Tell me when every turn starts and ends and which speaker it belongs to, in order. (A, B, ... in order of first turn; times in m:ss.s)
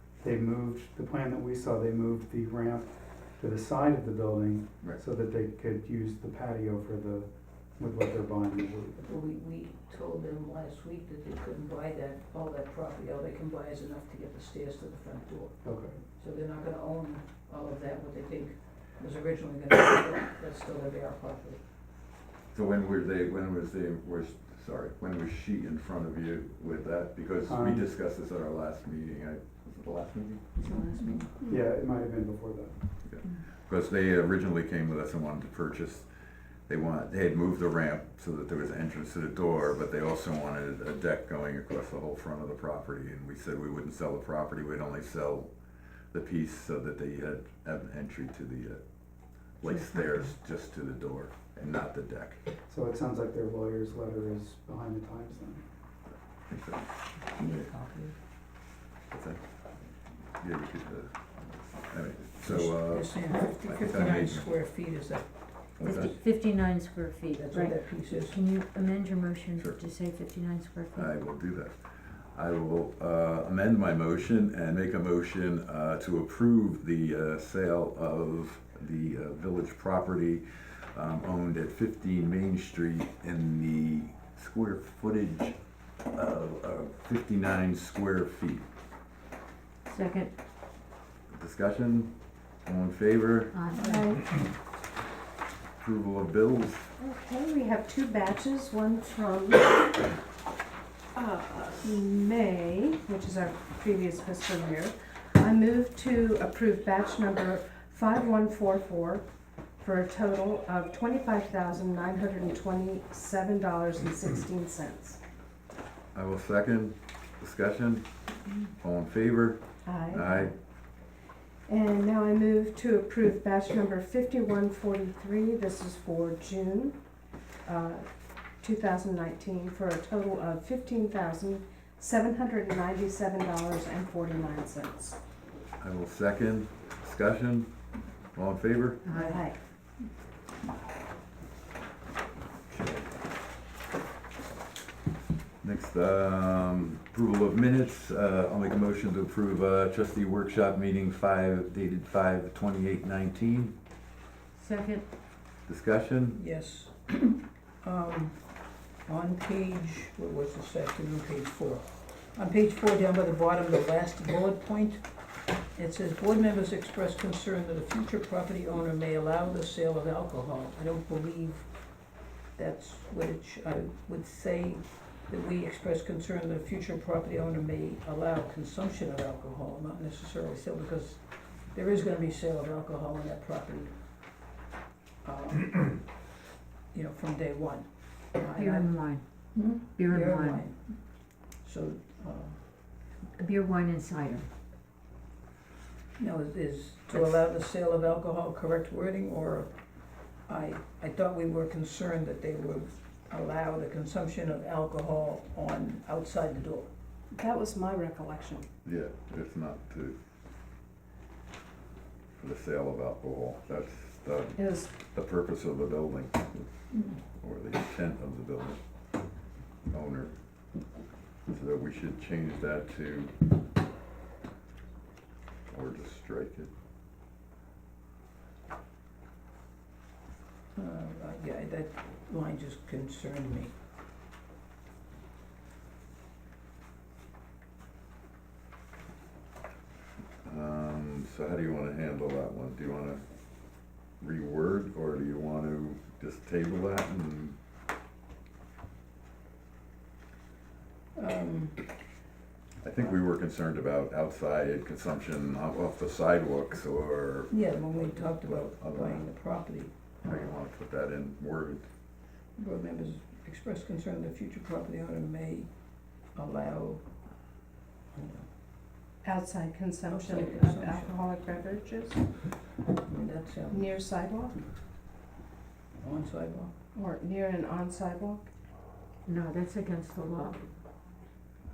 0:00.2-0:09.1 A
0:09.0-0:15.6 B
0:15.6-0:16.0 A
0:16.2-0:21.6 B
0:22.5-0:30.5 C
0:27.4-0:27.9 A
0:30.6-0:31.3 D
0:31.4-0:32.8 A
0:33.0-0:36.1 C
0:36.7-0:45.5 C
0:46.1-0:48.8 C
0:49.6-0:52.4 C
0:52.7-0:55.6 A
0:56.5-0:56.9 C
0:57.4-0:58.1 D
0:59.1-0:59.4 C
1:00.4-1:01.1 C
1:01.9-1:04.5 C
1:02.4-1:05.3 B
1:05.8-1:07.5 D
1:05.8-1:06.2 C
1:07.3-1:08.4 B
1:08.2-1:11.1 D
1:11.0-1:11.8 C
1:12.3-1:25.6 C
1:26.1-1:28.7 C
1:29.8-1:30.3 D
1:31.3-1:32.1 C
1:32.6-1:33.6 C
1:33.5-1:33.9 D
1:33.7-1:34.3 E
1:35.8-1:36.9 C
1:37.0-1:40.2 E
1:41.1-1:49.2 E
1:49.8-1:55.2 E
1:56.1-1:58.0 C
1:58.8-2:00.5 C
1:59.8-2:00.5 E
2:01.7-2:07.0 E
2:07.6-2:08.0 E
2:08.6-2:15.2 E
2:15.8-2:17.7 C
2:18.3-2:19.0 C
2:19.0-2:19.4 D
2:19.1-2:19.6 E
2:22.7-2:23.1 C
2:25.6-2:33.7 C
2:34.6-2:35.0 D
2:35.7-2:36.4 C
2:36.3-2:38.4 B
2:39.0-2:45.0 B
2:45.7-2:51.7 B
2:52.6-3:03.9 B
3:05.2-3:06.0 B
3:06.9-3:09.0 B
3:08.5-3:09.2 D
3:09.5-3:11.0 B
3:09.9-3:10.6 D
3:11.6-3:12.6 B
3:13.4-3:14.5 D
3:16.2-3:19.7 B
3:20.5-3:26.9 B
3:27.3-3:28.7 E
3:28.8-3:30.2 C
3:32.4-3:36.7 C
3:34.6-3:34.9 E
3:36.9-3:37.2 B
3:37.4-3:38.8 C
3:39.9-3:40.3 C
3:41.5-3:43.3 C
3:45.7-3:46.7 C
3:50.7-3:53.7 B
4:00.4-4:03.2 C
4:04.2-4:07.6 C
4:11.2-4:11.8 B
4:12.8-4:19.3 C
4:17.5-4:20.5 B
4:20.2-4:21.9 C
4:22.6-4:25.7 B
4:26.3-4:27.0 B
4:28.1-4:28.5 B
4:29.2-4:32.3 E
4:30.1-4:31.2 B
4:33.0-4:33.9 B
4:33.7-4:34.6 E
4:36.0-4:36.7 B
4:36.9-4:38.4 E
4:39.2-4:40.6 D